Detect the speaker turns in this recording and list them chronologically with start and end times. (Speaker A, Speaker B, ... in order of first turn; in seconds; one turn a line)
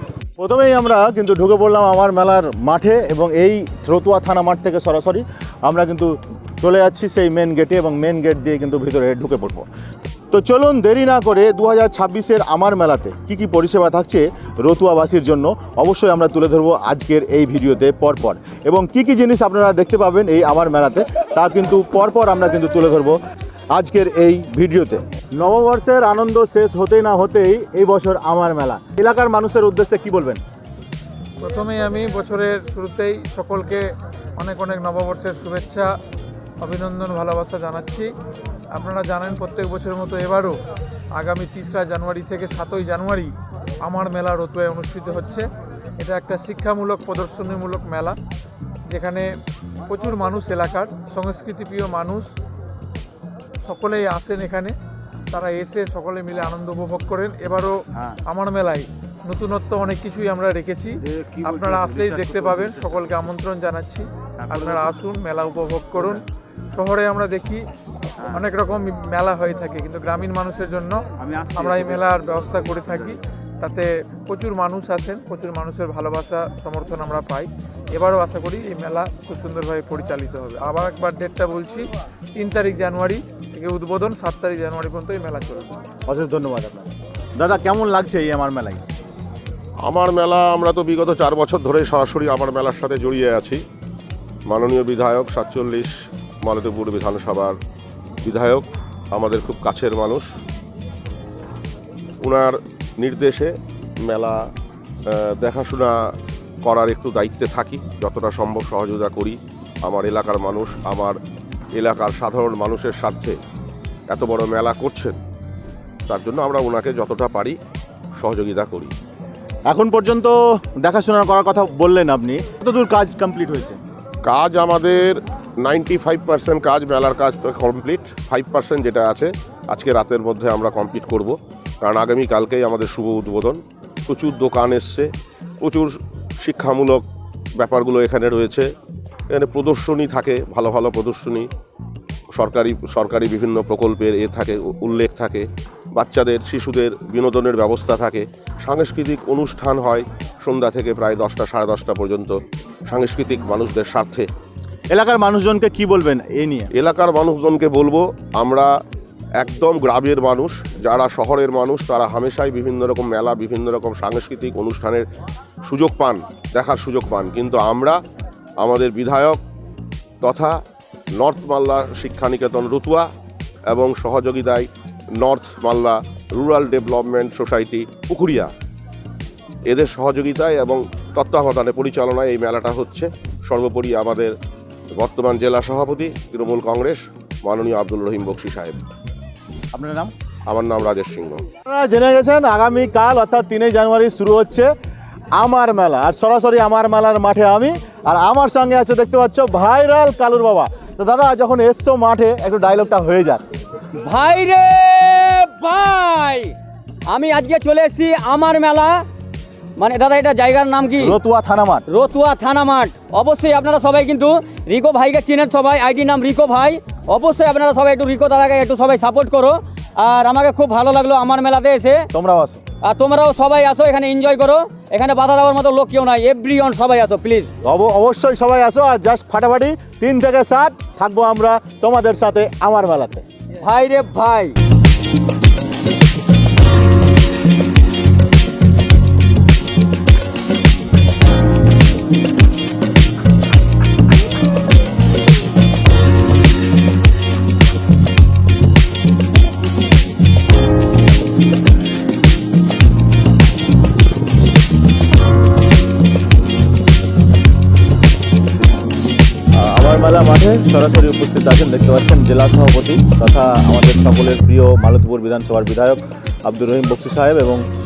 Speaker A: 0.4-9.7
Speaker A: 10.3-23.2
Speaker A: 23.7-30.4
Speaker B: 31.4-35.9
Speaker B: 36.6-38.1
Speaker B: 38.7-40.6
Speaker B: 41.2-45.5
Speaker B: 46.0-48.2
Speaker B: 48.9-49.3
Speaker B: 49.9-52.3
Speaker B: 53.6-54.7
Speaker B: 55.3-67.7
Speaker B: 68.2-85.8
Speaker A: 86.1-88.8
Speaker C: 89.8-93.6
Speaker C: 94.5-97.6
Speaker C: 98.2-100.3
Speaker C: 102.2-104.4
Speaker C: 105.1-105.9
Speaker C: 106.6-111.2
Speaker C: 111.7-113.4
Speaker C: 114.1-115.2
Speaker C: 116.1-117.6
Speaker C: 118.2-118.9
Speaker A: 119.7-123.8
Speaker C: 124.2-135.1
Speaker C: 135.6-137.1
Speaker C: 137.6-138.7
Speaker C: 139.3-141.5
Speaker C: 142.3-152.4
Speaker C: 152.9-154.3
Speaker A: 154.9-156.7
Speaker C: 156.8-158.7
Speaker C: 159.4-165.1
Speaker C: 165.7-168.0
Speaker C: 168.6-169.4
Speaker C: 170.2-170.6
Speaker C: 171.2-173.1
Speaker C: 173.7-178.5
Speaker C: 179.7-184.3
Speaker C: 184.9-188.8
Speaker A: 189.7-190.1
Speaker C: 190.5-191.4
Speaker A: 191.6-194.7
Speaker A: 195.4-203.5
Speaker D: 204.0-206.5
Speaker D: 207.1-209.1
Speaker D: 209.8-211.2
Speaker A: 211.0-211.8
Speaker D: 211.9-222.1
Speaker A: 222.1-222.6
Speaker D: 222.8-227.5
Speaker A: 227.6-233.2
Speaker D: 233.6-234.5
Speaker A: 259.5-267.6